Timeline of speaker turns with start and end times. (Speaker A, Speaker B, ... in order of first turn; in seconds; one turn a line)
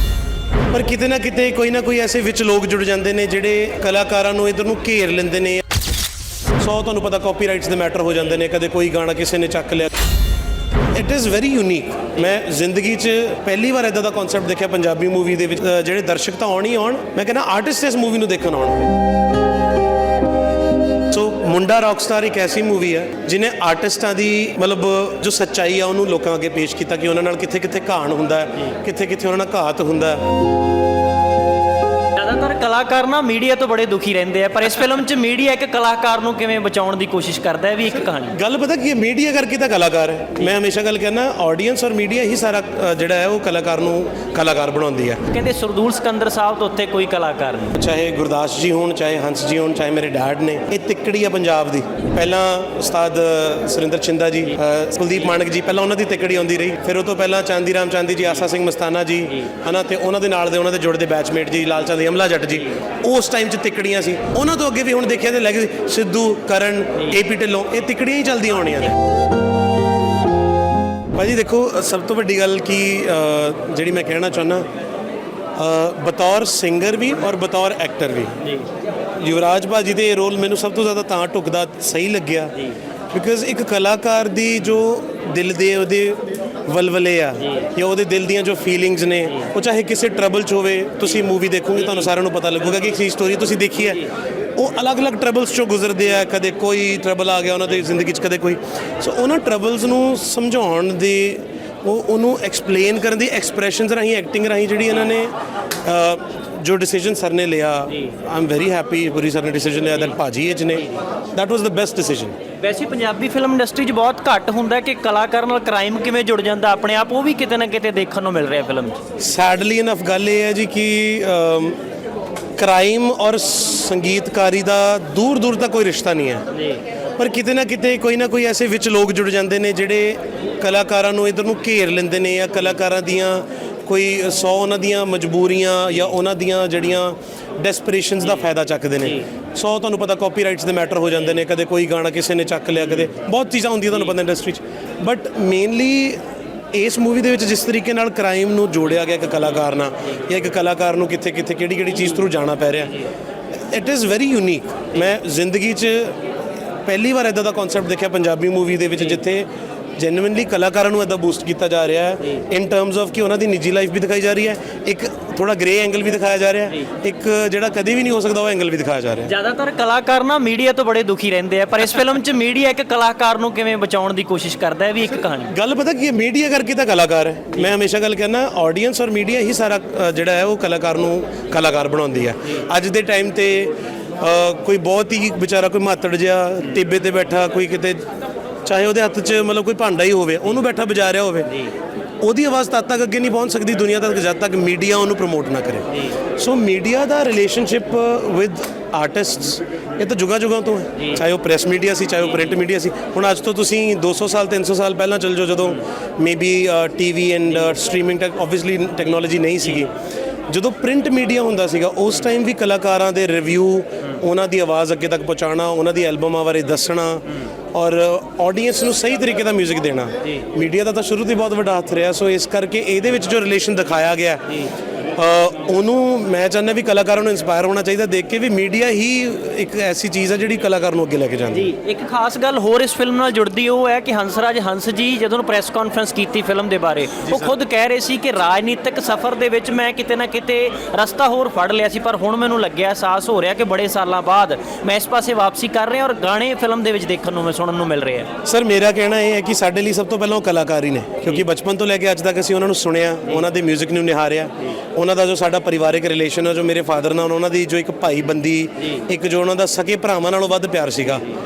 Speaker A: 0.7-5.7
Speaker A: 6.6-9.9
Speaker A: 10.9-18.9
Speaker A: 21.1-30.2
Speaker B: 32.1-38.4
Speaker A: 38.2-45.2
Speaker B: 45.3-47.8
Speaker A: 47.8-69.0
Speaker A: 71.2-74.7
Speaker A: 75.6-78.4
Speaker A: 79.2-105.3
Speaker A: 105.8-112.3
Speaker B: 112.6-119.0
Speaker A: 119.2-121.8
Speaker A: 122.6-126.5
Speaker A: 127.2-146.2
Speaker A: 146.7-153.0
Speaker A: 153.7-156.2
Speaker A: 156.8-159.5
Speaker A: 160.0-169.3
Speaker B: 169.3-175.5
Speaker A: 175.5-188.0
Speaker A: 188.7-191.7
Speaker A: 192.2-209.9
Speaker A: 210.5-224.6
Speaker A: 225.2-231.7
Speaker B: 231.6-248.3
Speaker A: 237.2-237.5
Speaker A: 248.4-261.3